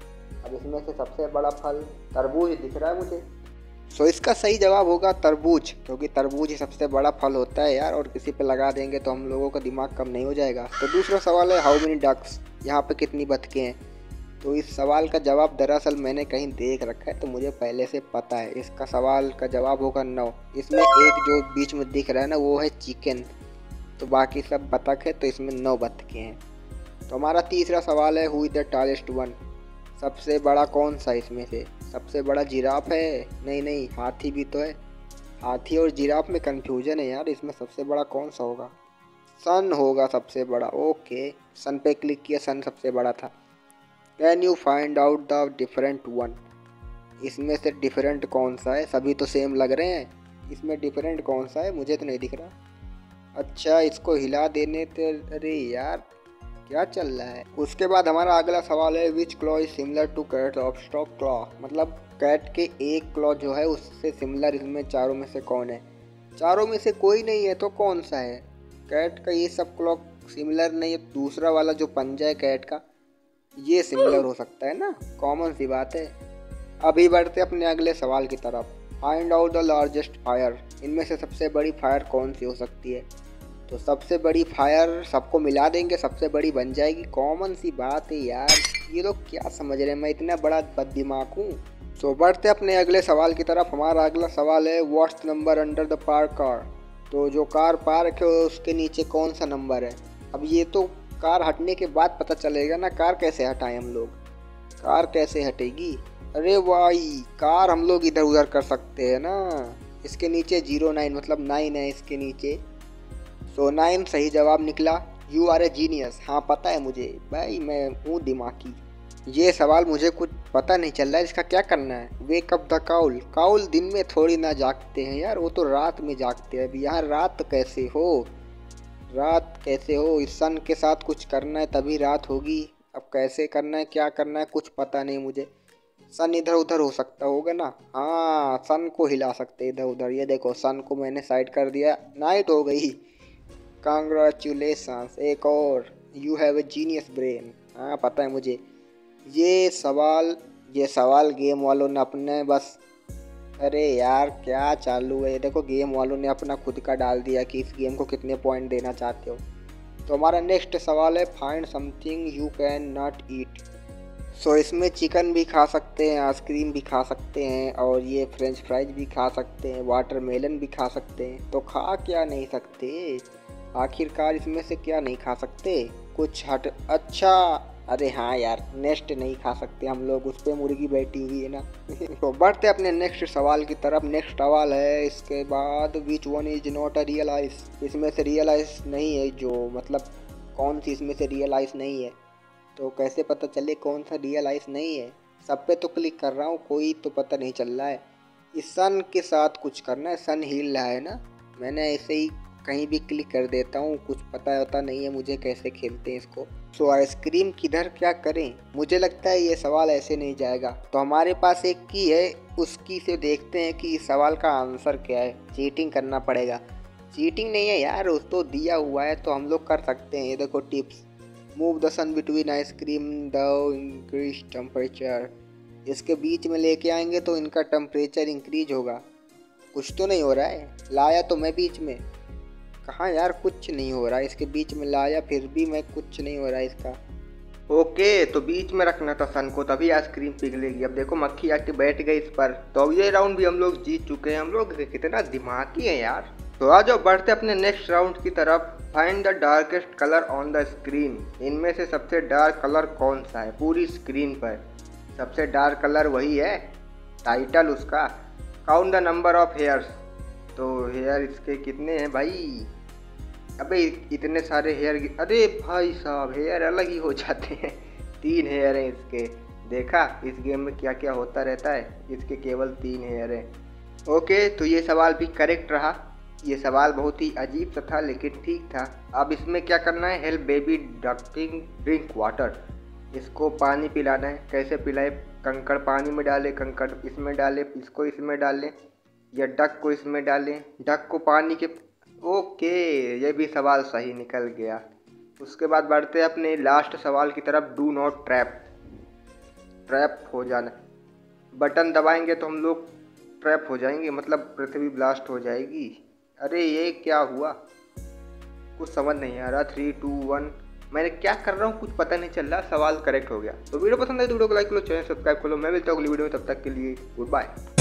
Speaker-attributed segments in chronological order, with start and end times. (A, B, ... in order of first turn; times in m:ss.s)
0:00.4-0:03.2 A
0:03.9-0:13.8 A
0:14.4-0:23.3 A
0:24.0-0:26.4 A
0:27.1-0:29.4 A
0:30.0-0:34.8 A
0:35.4-0:38.7 A
0:39.4-0:43.3 A
0:44.2-0:46.4 A
0:47.2-0:52.5 A
0:53.4-0:56.0 A
0:56.7-1:05.8 A
1:06.4-1:12.8 A
1:13.6-1:16.2 A
1:16.8-1:23.1 A
1:23.7-1:44.2 A
1:44.8-1:52.6 A
1:53.5-2:08.3 A
2:09.1-2:15.5 A
2:16.1-2:23.0 A
2:23.8-2:28.6 A
2:29.3-2:32.8 A
2:33.6-2:39.4 A
2:40.1-2:43.6 A
2:44.4-3:12.2 A
3:12.8-3:18.0 A
3:18.5-3:41.0 A
3:41.6-3:45.3 A
3:45.9-3:49.0 A
3:49.7-3:52.0 A
3:52.8-3:57.0 A
3:57.7-4:14.6 A
4:15.1-4:18.1 A
4:18.6-4:20.0 A
4:20.6-4:22.7 A
4:23.6-4:33.5 A
4:34.1-4:42.6 A
4:43.1-4:48.7 A
4:49.3-4:54.8 A
4:55.4-4:58.7 A
4:59.9-5:00.8 A
5:01.5-5:07.6 A
5:08.8-5:17.5 A